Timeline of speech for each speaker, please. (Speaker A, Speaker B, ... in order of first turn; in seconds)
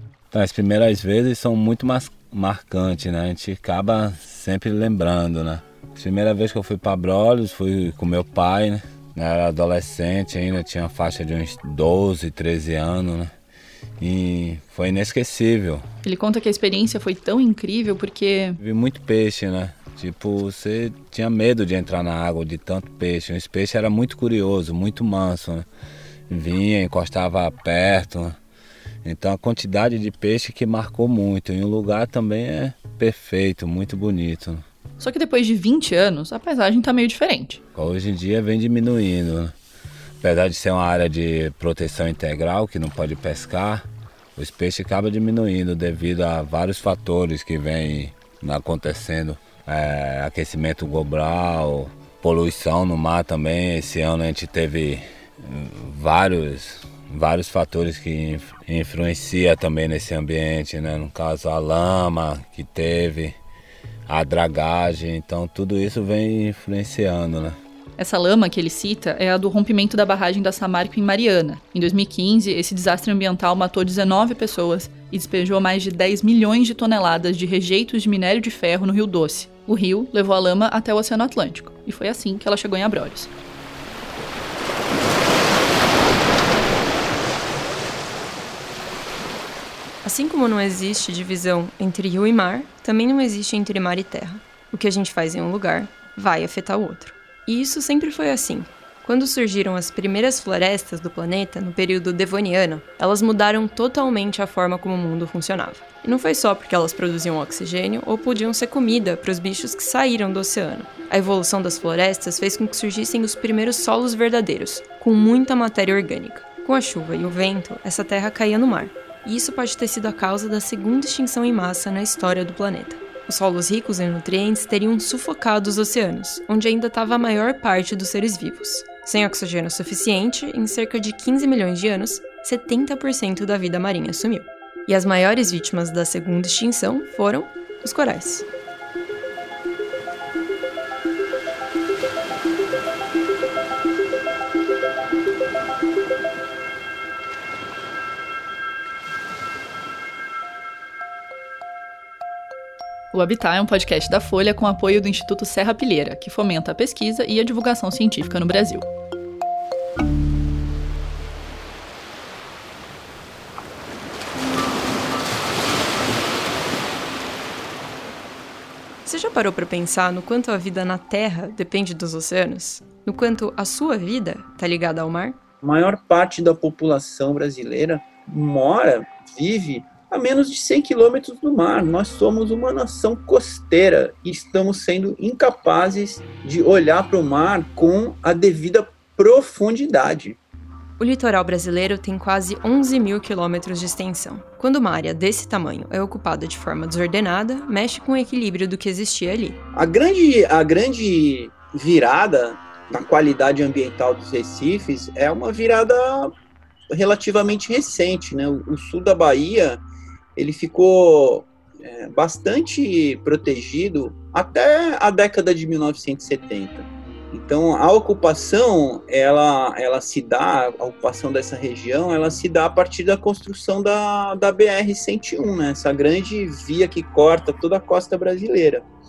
Speaker A: 0.3-13.3, 14.0-15.8, 18.6-25.7, 26.3-28.4, 29.0-34.6, 37.7-39.5, 40.2-63.4, 64.1-67.6
Speaker B: 16.0-18.6, 35.0-37.6, 68.0-83.3, 153.1-158.9
Speaker C: 90.0-138.4, 169.0-175.4, 191.0-199.6
Speaker D: 175.6-190.4, 199.7-206.3, 206.9-209.8, 210.3-228.8